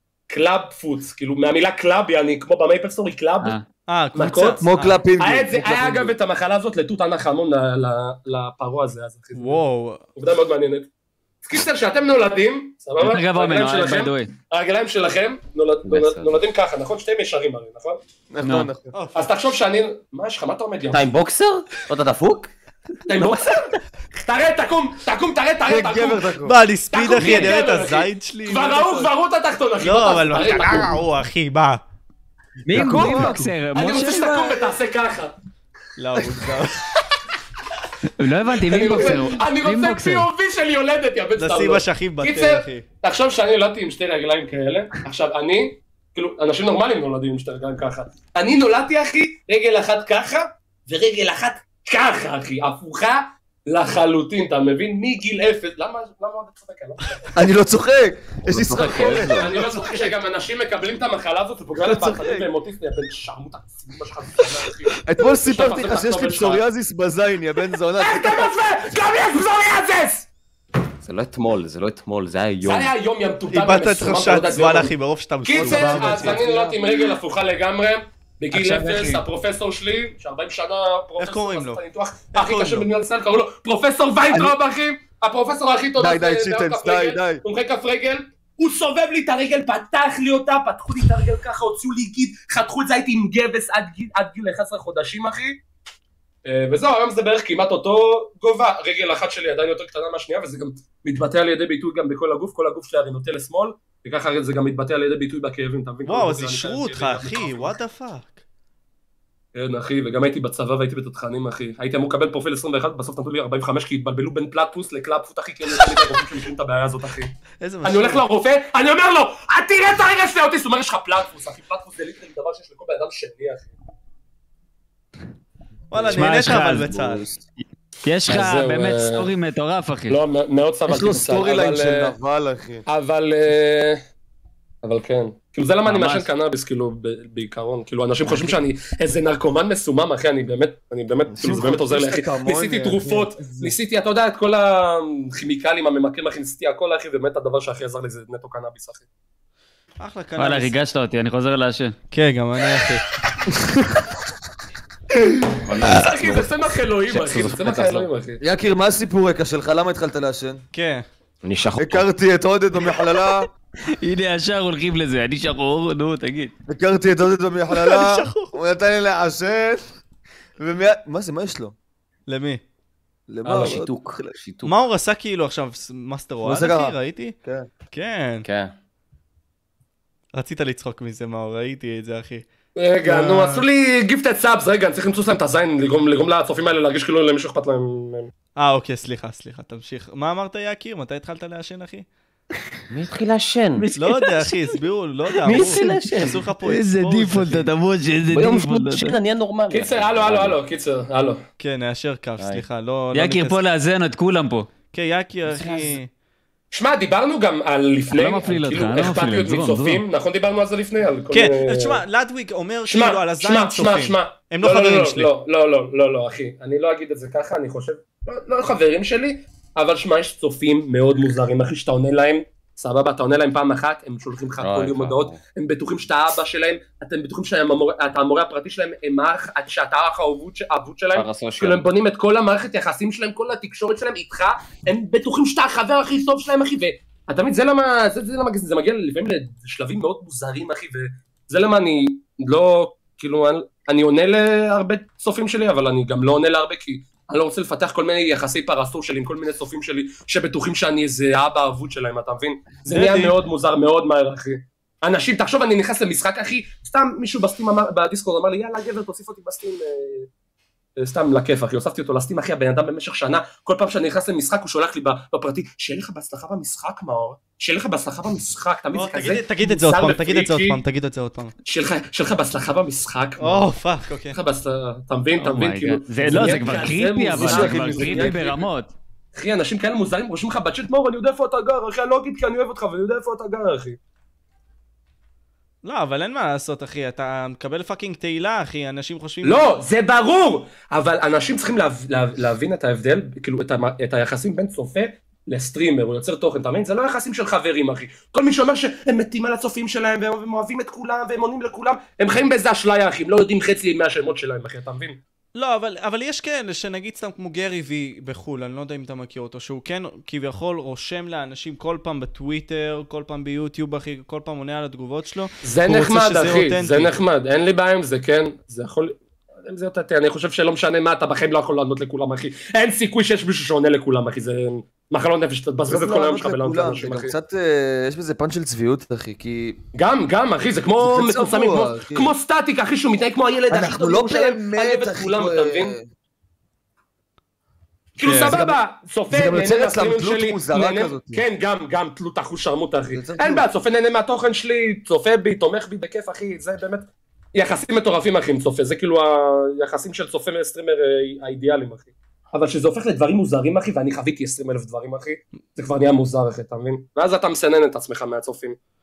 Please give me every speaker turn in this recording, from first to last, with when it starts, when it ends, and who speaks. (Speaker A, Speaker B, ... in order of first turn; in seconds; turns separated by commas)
Speaker A: 0.3-3.6, Speaker B: 3.9-5.0, Speaker A: 4.2-4.6, Speaker C: 4.6-6.2, Speaker A: 5.2-9.6, Speaker B: 9.3-10.0, Speaker A: 10.2-10.9, Speaker A: 11.4-18.0, Speaker D: 13.0-14.3, Speaker E: 15.8-16.4, Speaker C: 18.3-18.9, Speaker D: 18.4-18.7, Speaker B: 18.9-19.3, Speaker A: 19.1-21.1, Speaker E: 20.9-22.5, Speaker A: 23.1-26.3, Speaker C: 25.6-26.6, Speaker B: 26.5-29.1, Speaker A: 26.9-31.0, Speaker B: 29.8-31.8, Speaker D: 32.7-34.7, Speaker C: 32.7-33.5, Speaker B: 32.8-33.3, Speaker A: 32.9-35.3, Speaker B: 36.0-36.9, Speaker D: 38.2-40.3, Speaker A: 38.6-57.4, Speaker B: 41.4-42.9, Speaker C: 57.3-59.8, Speaker E: 58.5-59.6, Speaker A: 59.2-66.6, Speaker C: 61.8-62.5, Speaker C: 65.0-68.5, Speaker A: 68.0-70.3, Speaker E: 71.0-72.9, Speaker A: 72.6-74.9, Speaker B: 73.5-76.4, Speaker A: 75.4-95.6, Speaker C: 75.5-77.0, Speaker D: 78.5-79.2, Speaker B: 81.2-81.8, Speaker B: 82.3-82.9, Speaker C: 86.0-87.4, Speaker A: 96.5-107.8, Speaker B: 106.1-108.4, Speaker A: 109.5-123.7, Speaker B: 117.6-118.2, Speaker B: 125.9-127.3, Speaker C: 125.9-126.2, Speaker D: 126.1-127.1, Speaker D: 128.0-130.2, Speaker A: 128.3-129.3, Speaker A: 130.1-132.1, Speaker C: 130.9-132.8, Speaker A: 132.9-134.0, Speaker A: 134.8-149.0, Speaker D: 135.8-136.3, Speaker C: 141.3-143.8, Speaker B: 150.0-150.8, Speaker D: 150.4-152.0, Speaker B: 152.1-153.1, Speaker E: 155.7-156.5, Speaker A: 155.8-158.4, Speaker E: 157.1-158.1, Speaker C: 158.4-160.6, Speaker B: 160.7-161.1, Speaker E: 161.4-162.1, Speaker C: 161.8-163.5, Speaker D: 163.9-166.5, Speaker C: 166.7-169.8, Speaker B: 167.7-168.5, Speaker C: 170.6-171.7, Speaker B: 172.3-172.6, Speaker C: 173.3-174.4, Speaker A: 173.4-173.8, Speaker E: 173.5-174.7, Speaker B: 174.6-177.4, Speaker C: 176.4-177.7, Speaker B: 177.9-178.5, Speaker E: 178.4-178.7, Speaker B: 180.3-182.4, Speaker A: 182.8-188.3, Speaker C: 183.1-183.6, Speaker B: 188.6-192.1, Speaker E: 192.9-193.9, Speaker D: 193.8-194.5, Speaker B: 193.9-197.7, Speaker E: 195.4-196.5, Speaker D: 195.5-195.9, Speaker D: 196.6-199.2, Speaker E: 198.3-200.6, Speaker A: 199.7-201.4, Speaker B: 201.6-203.6, Speaker E: 202.4-202.7, Speaker D: 203.1-204.7, Speaker B: 204.9-206.1, Speaker E: 205.5-206.0, Speaker A: 206.7-212.0, Speaker D: 208.1-210.0, Speaker B: 211.3-215.3, Speaker A: 212.9-260.3, Speaker E: 224.6-225.4, Speaker E: 231.1-231.8, Speaker B: 252.9-253.4, Speaker A: 261.0-270.8, Speaker B: 268.9-271.6, Speaker A: 271.7-273.7, Speaker B: 273.4-274.4, Speaker A: 274.3-278.6, Speaker D: 275.4-278.9, Speaker C: 276.3-276.8, Speaker C: 277.3-278.4, Speaker A: 279.3-284.0, Speaker B: 285.8-289.7, Speaker A: 289.4-305.2, Speaker B: 305.6-317.1, Speaker A: 315.6-327.3, Speaker C: 325.9-329.8, Speaker A: 329.9-335.9, Speaker C: 331.0-332.3, Speaker C: 333.7-336.1, Speaker A: 338.2-358.8, Speaker B: 338.2-338.6, Speaker C: 338.3-338.8, Speaker C: 339.3-341.4, Speaker C: 343.1-343.7